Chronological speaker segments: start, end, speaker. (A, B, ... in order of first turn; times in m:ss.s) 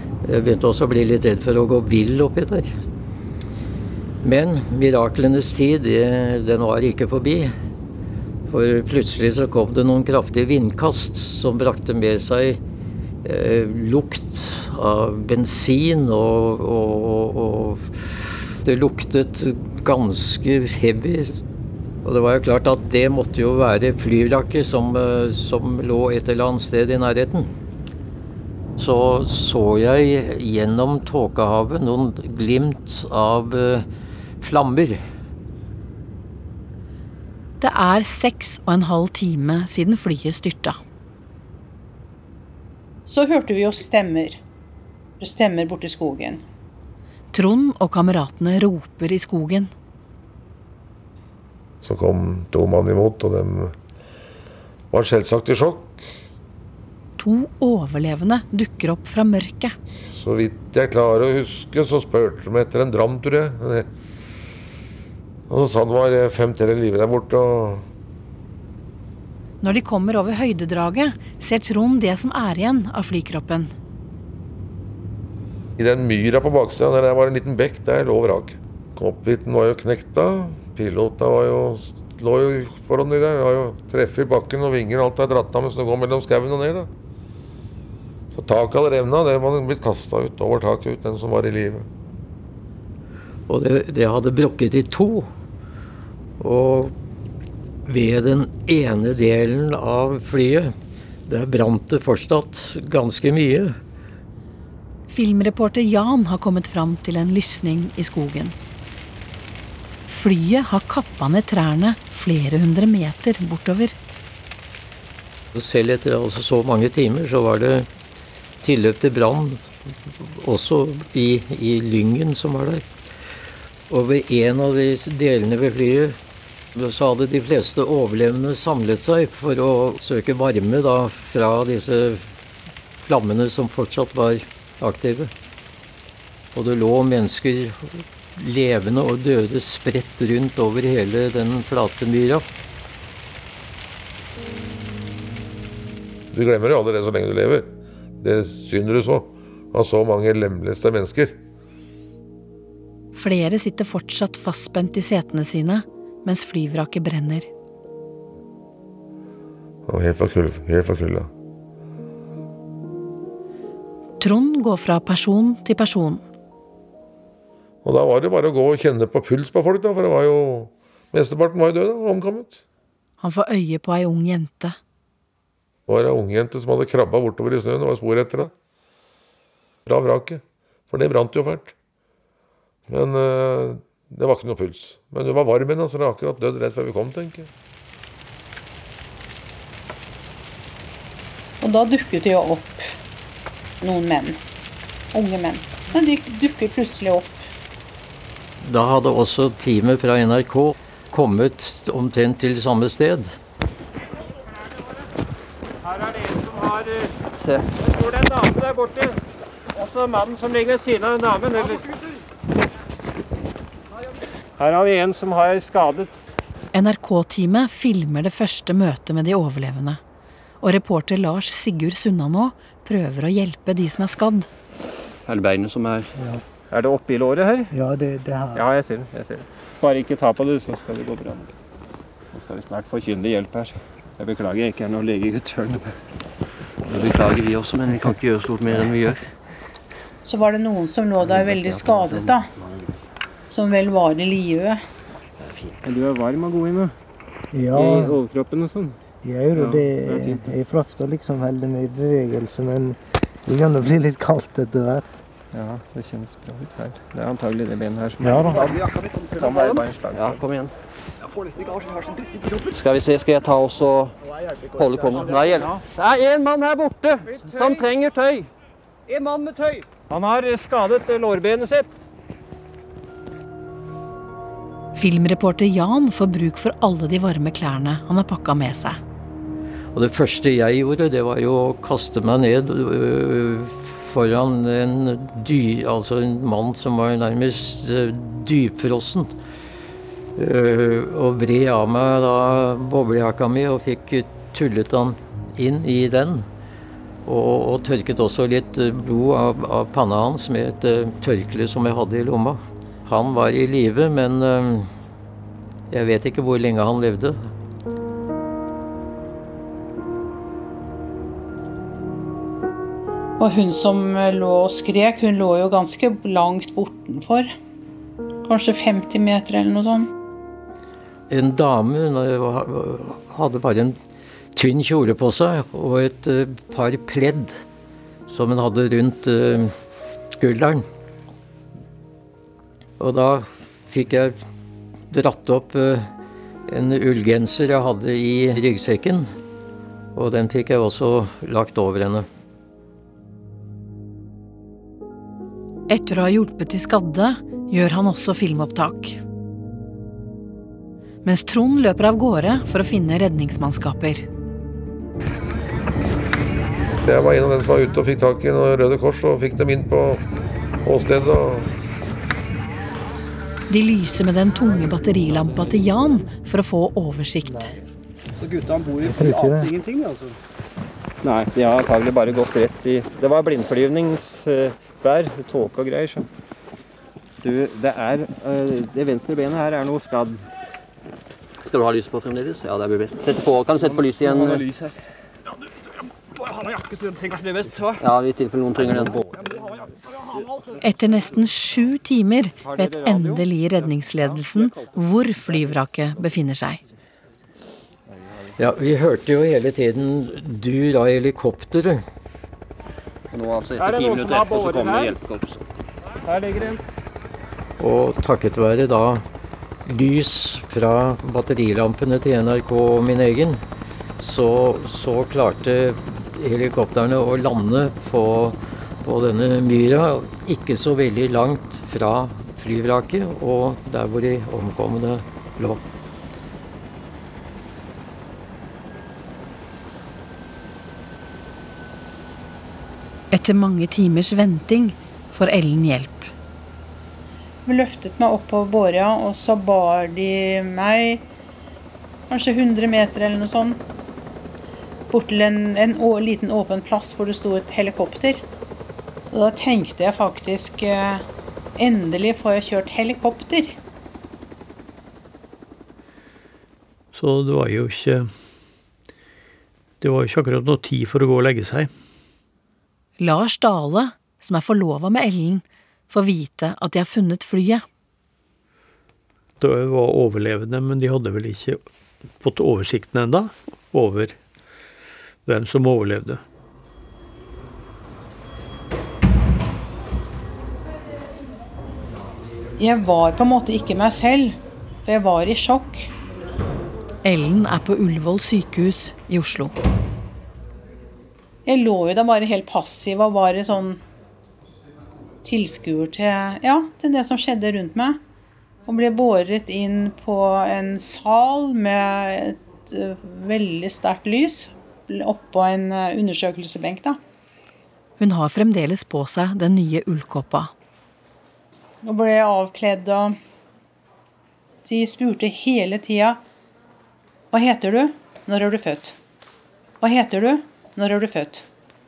0:00.2-0:02.8 A
0:04.2-0:07.5 A
0:08.5-0:12.6 A
0:13.2-0:21.4 A
0:22.0-0:27.5 A
0:28.8-0:33.8 A
0:34.4-0:35.0 A
0:37.6-0:40.8 B
0:43.1-0:44.4 C
0:45.2-0:46.4 C
0:47.3-0:49.7 B
0:51.8-0:53.7 D
0:54.9-0:56.0 D
0:57.2-0:59.8 B
1:00.1-1:03.8 D
1:05.5-1:07.8 D
1:09.6-1:13.7 B
1:15.8-1:26.9 D
1:28.3-1:31.8 D
1:33.5-1:35.3 A
1:36.4-1:36.9 A
1:37.8-1:40.7 A
1:41.3-1:43.8 A
1:45.1-1:48.5 B
1:50.1-1:53.9 B
1:55.5-1:57.9 A
1:58.6-2:02.9 A
2:03.9-2:06.2 A
2:06.7-2:12.3 A
2:13.0-2:15.3 A
2:16.5-2:22.4 A
2:26.3-2:27.7 D
2:28.2-2:31.4 D
2:33.1-2:37.5 B
2:39.9-2:41.3 D
2:44.2-2:46.2 B
2:47.8-2:52.6 D
2:53.2-2:54.8 B
2:55.9-2:58.5 D
2:59.8-3:01.7 D
3:02.9-3:07.5 D
3:11.6-3:12.9 C
3:13.8-3:14.4 C
3:15.1-3:17.4 C
3:18.6-3:23.3 A
3:25.8-3:27.1 E
3:27.7-3:29.2 E
3:29.7-3:31.8 E
3:34.6-3:36.2 E
3:36.7-3:40.0 B
3:40.6-3:44.5 B
3:45.2-3:46.1 F
3:46.7-3:47.7 E
3:47.7-3:48.6 G
3:48.5-3:51.5 E
3:52.3-3:55.9 E
3:56.9-3:59.2 F
4:00.2-4:02.5 C
4:01.2-4:02.2 G
4:03.5-4:04.8 C
4:05.8-4:06.9 E
4:07.5-4:08.1 G
4:07.7-4:09.0 E
4:09.2-4:15.0 G
4:09.5-4:10.5 E
4:15.5-4:20.4 E
4:18.2-4:18.7 G
4:20.1-4:20.7 F
4:22.7-4:24.1 F
4:24.7-4:28.4 F
4:25.1-4:25.8 E
4:27.2-4:28.0 E
4:29.1-4:31.9 E
4:35.0-4:39.0 B
4:39.9-4:49.3 A
4:50.4-4:56.5 A
4:57.2-5:04.9 A
5:05.9-5:07.5 A
5:13.4-5:17.5 C
5:18.4-5:20.1 C
5:21.3-5:24.0 A
5:24.5-5:27.6 A
5:28.3-5:29.7 A
5:30.4-5:30.8 A
5:33.0-5:34.4 A
5:35.1-5:36.1 A
5:36.7-5:39.3 A
5:40.1-5:42.2 A
5:45.9-5:49.2 B
5:51.2-5:54.2 B
5:57.0-6:00.2 D
6:00.8-6:01.7 D
6:03.7-6:07.7 B
6:08.4-6:10.3 E
6:09.0-6:09.7 G
6:11.2-6:16.2 E
6:17.4-6:20.4 E
6:21.6-6:24.6 F
6:23.9-6:24.9 E
6:26.9-6:27.9 E
6:27.8-6:29.2 F
6:30.8-6:36.8 B
6:32.6-6:33.4 E
6:38.6-6:42.0 A
6:43.3-6:45.5 F
6:43.7-6:45.2 E
6:46.2-6:46.8 E
6:47.8-6:49.2 A
6:49.8-6:53.6 A
6:54.2-7:05.8 A
7:13.3-7:16.3 B
7:17.6-7:21.2 C
7:22.3-7:23.8 C
7:25.1-7:28.4 C
7:29.3-7:31.2 C
7:31.8-7:33.8 C
7:37.1-7:38.3 H
7:40.0-7:41.9 H
7:43.2-7:47.8 B
7:49.6-7:51.8 H
7:52.4-7:54.4 H
7:55.4-7:56.4 H
8:02.8-8:06.1 C
8:07.2-8:09.7 B
8:11.6-8:14.0 C
8:15.4-8:18.2 C
8:18.8-8:27.2 C
8:28.2-8:30.7 B
8:32.0-8:33.4 C
8:34.8-8:36.4 C
8:37.5-8:39.2 C
8:40.0-8:41.6 C